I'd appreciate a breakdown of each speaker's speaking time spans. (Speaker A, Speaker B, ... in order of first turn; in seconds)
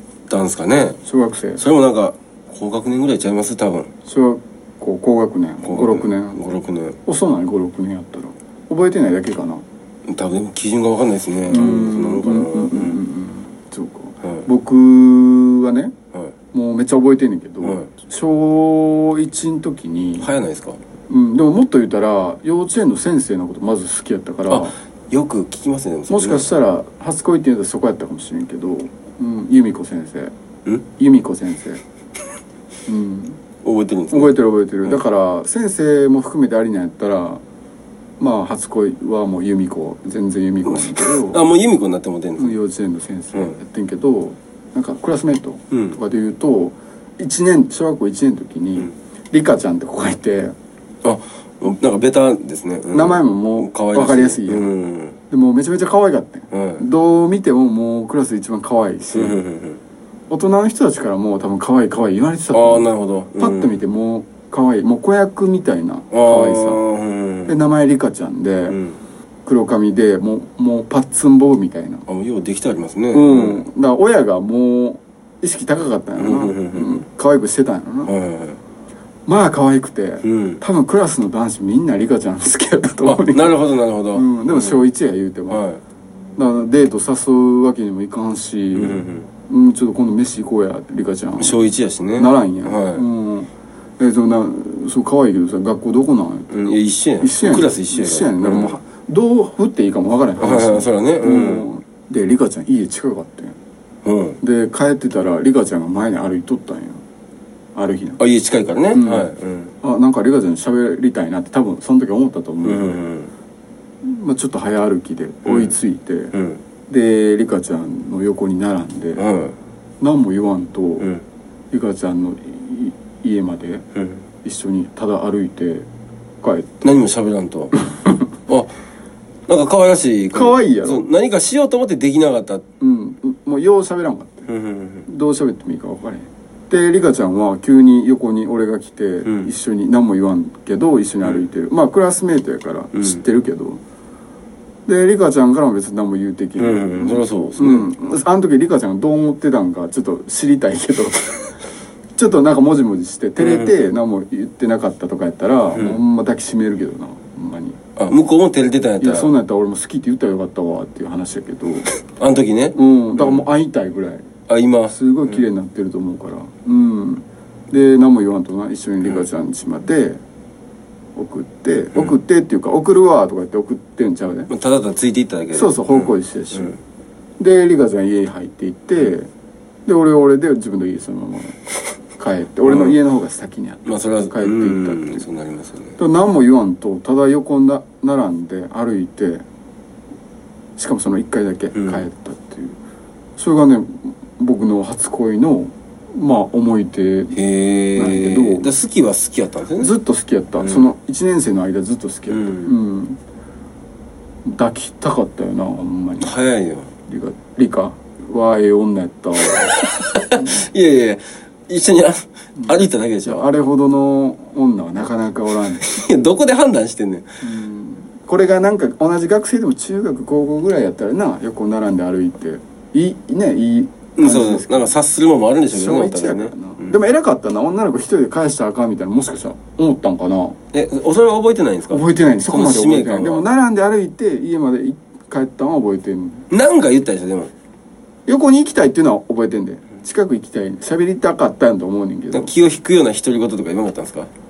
Speaker A: 0.3-1.0, 1.6-3.9, 5.6-7.0, 10.1-13.0, 20.2-20.8, 24.5-26.5, 33.6-34.3, 40.7-42.6, 45.7-46.0, 51.0-55.2, 56.5-56.8, 59.1-59.8, 62.5-63.8, 66.1-67.6, 68.7-69.0, 72.1-73.6, 76.2-77.0, 78.1-78.6, 80.2-80.6, 83.0-84.8, 85.5-85.8, 88.8-89.3, 91.4-93.0, 96.5-98.8, 100.4-101.7, 104.0-104.4, 108.2-109.7, 112.6-113.3, 115.5-115.7, 116.3-116.6, 119.2-119.5, 124.0-124.2, 126.8-127.7, 128.5-128.7, 129.5-132.6, 134.5-135.1, 146.6-147.9, 153.4-153.7, 158.0-159.3, 162.2-163.5, 164.5-164.9, 174.5-176.8, 182.7-183.0, 183.9-186.0, 191.8-192.1, 197.3-199.9, 200.6-200.9, 202.3-202.7, 206.2-206.9, 209.5-213.5, 215.7-217.3, 224.2-227.0, 230.7-233.5, 236.5-237.5, 242.3-244.3
Speaker B: 1.1-1.6, 4.0-6.4, 7.0-9.6, 11.5-15.9, 16.5-20.3, 21.1-24.7, 26.1-30.3, 30.9-31.8, 32.9-33.4, 34.1-37.4, 38.2-41.4, 42.4-50.5, 52.9-54.7, 55.3-59.4, 60.3-62.9, 63.4-66.8, 67.5-68.8, 69.5-72.0, 73.1-78.1, 79.3-83.6, 84.1-85.6, 86.4-91.6, 92.2-96.7, 97.2-103.6, 104.4-107.0, 107.8-108.2, 108.9-109.3, 109.8-113.0, 114.0-116.3, 116.9-119.2, 120.0-121.1, 121.7-123.9, 124.4-125.9, 126.4-126.8, 127.9-128.2, 130.3-131.1, 132.8-134.5, 135.1-143.8, 144.9-151.6, 152.2-157.8, 159.0-161.9, 162.7-164.3, 164.9-170.2, 171.2-174.5, 175.5-176.8, 177.4-179.3, 179.9-181.6, 182.2-185.2, 186.0-189.4, 190.8-192.8, 193.4-197.4, 197.9-198.7, 199.8-203.2, 204.4-206.3, 207.1-210.6, 212.6-215.9, 217.4-224.9, 225.7-230.6, 231.9-236.5, 238.3-242.5